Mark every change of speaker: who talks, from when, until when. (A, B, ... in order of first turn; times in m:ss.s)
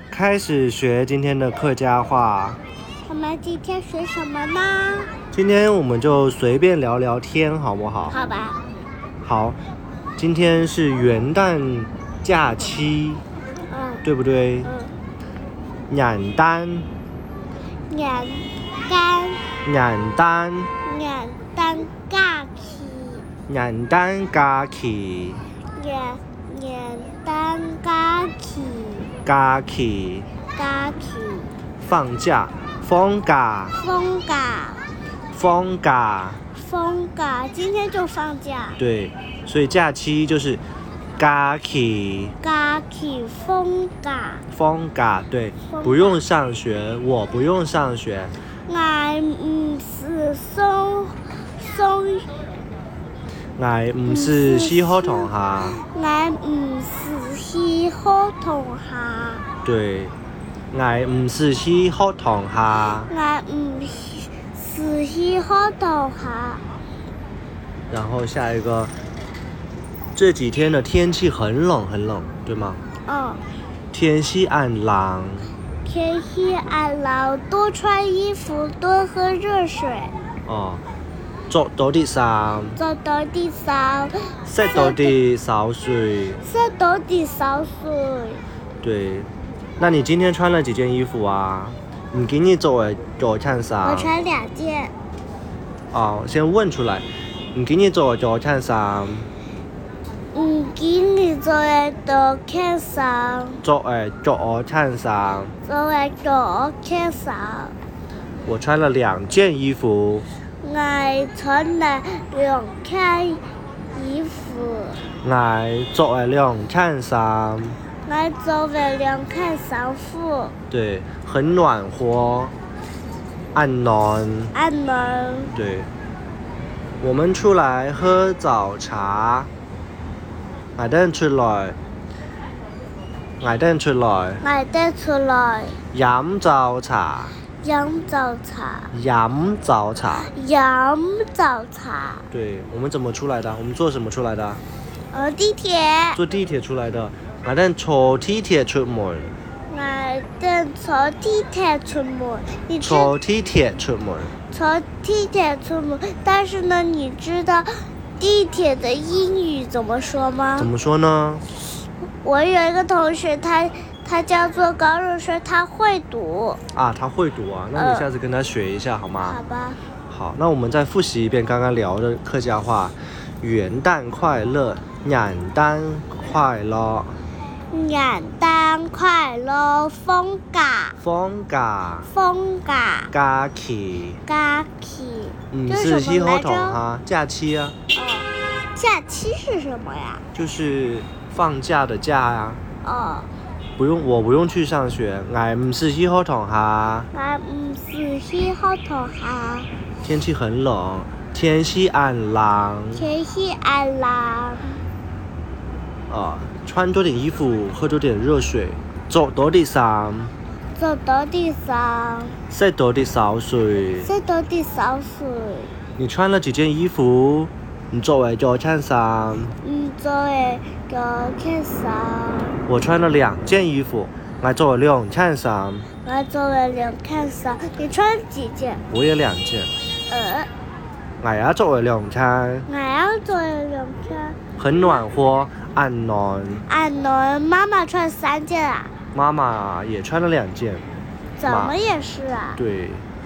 0:00.1-0:02.6 A
0:03.0-0:05.1 B
0:05.3-0:08.2 A
0:08.1-0:08.6 B
0:09.2-0:09.6 A
0:10.2-0:13.2 A
0:13.7-0:14.0 B
0:14.0-0:14.7 A
0:14.6-0:14.9 B
0:15.9-0:16.9 A
0:17.9-0:19.5 B
0:19.6-0:20.7 A
0:20.8-0:23.2 B
0:23.5-0:25.4 A
0:25.8-0:29.1 B
0:29.2-0:30.3 A
0:30.6-0:31.5 B
0:31.8-0:33.8 A
0:33.8-0:34.8 B
0:35.3-0:36.4 A
0:36.5-0:38.8 B
0:38.8-0:40.6 A
0:41.2-0:42.4 A
0:42.4-0:44.4 B
0:44.5-0:48.3 A
0:45.7-0:46.2 B
0:48.7-0:52.3 B
0:53.6-0:55.8 A
0:54.1-0:59.5 B
0:59.6-1:00.1 A
1:00.7-1:03.1 A
1:03.0-1:06.6 B
1:07.9-1:08.9 A
1:10.2-1:12.8 A
1:13.0-1:13.4 B
1:13.9-1:15.5 A
1:15.8-1:20.1 B
1:20.5-1:20.8 A
1:21.5-1:22.8 A
1:22.8-1:25.2 B
1:24.5-1:26.4 A
1:26.4-1:28.4 B
1:28.8-1:29.3 A
1:29.8-1:34.1 A
1:33.8-1:34.9 B
1:35.9-1:39.3 A
1:40.3-1:43.6 B
1:43.6-1:45.5 A
1:45.7-1:47.8 B
1:48.5-1:50.3 A
1:50.6-1:53.4 B
1:53.9-1:55.0 B
1:55.2-1:57.8 A
1:58.1-2:00.6 B
2:00.7-2:02.5 A
2:03.5-2:04.5 A
2:04.5-2:05.6 B
2:05.5-2:05.9 A
2:07.0-2:09.5 A
2:10.8-2:11.8 A
2:13.4-2:14.4 A
2:14.4-2:15.8 B
2:15.9-2:17.4 A
2:17.6-2:18.9 B
2:18.9-2:20.3 A
2:20.2-2:22.3 B
2:22.3-2:24.6 A
2:25.1-2:26.2 B
2:26.1-2:29.3 A
2:29.7-2:33.1 B
2:32.8-2:34.4 A
2:34.5-2:40.7 B
2:40.6-2:41.4 A
2:42.2-2:46.6 B
2:46.7-2:49.4 A
2:47.8-2:48.1 B
2:49.2-2:49.8 B
2:50.1-2:57.2 A
2:57.7-3:01.0 B
3:01.0-3:02.1 A
3:02.1-3:03.1 B
3:03.1-3:04.2 A
3:04.3-3:06.8 B
3:05.5-3:07.8 A
3:07.9-3:10.3 B
3:10.3-3:12.6 A
3:12.8-3:13.3 B
3:13.8-3:17.1 A
3:17.1-3:19.7 B
3:20.0-3:23.1 A
3:23.0-3:24.8 B
3:26.1-3:30.3 A
3:30.8-3:32.4 B
3:32.5-3:34.1 A
3:34.0-3:35.8 B
3:36.0-3:39.6 A
3:39.6-3:42.6 B
3:42.7-3:45.9 A
3:46.0-3:48.8 B
3:48.9-3:49.7 A
3:50.1-3:50.5 B
3:51.2-3:52.7 A
3:52.7-3:54.4 B
3:54.6-3:56.6 A
3:56.7-3:58.9 B
3:59.1-4:00.9 A
4:01.4-4:02.6 B
4:01.5-4:01.8 A
4:02.6-4:03.0 A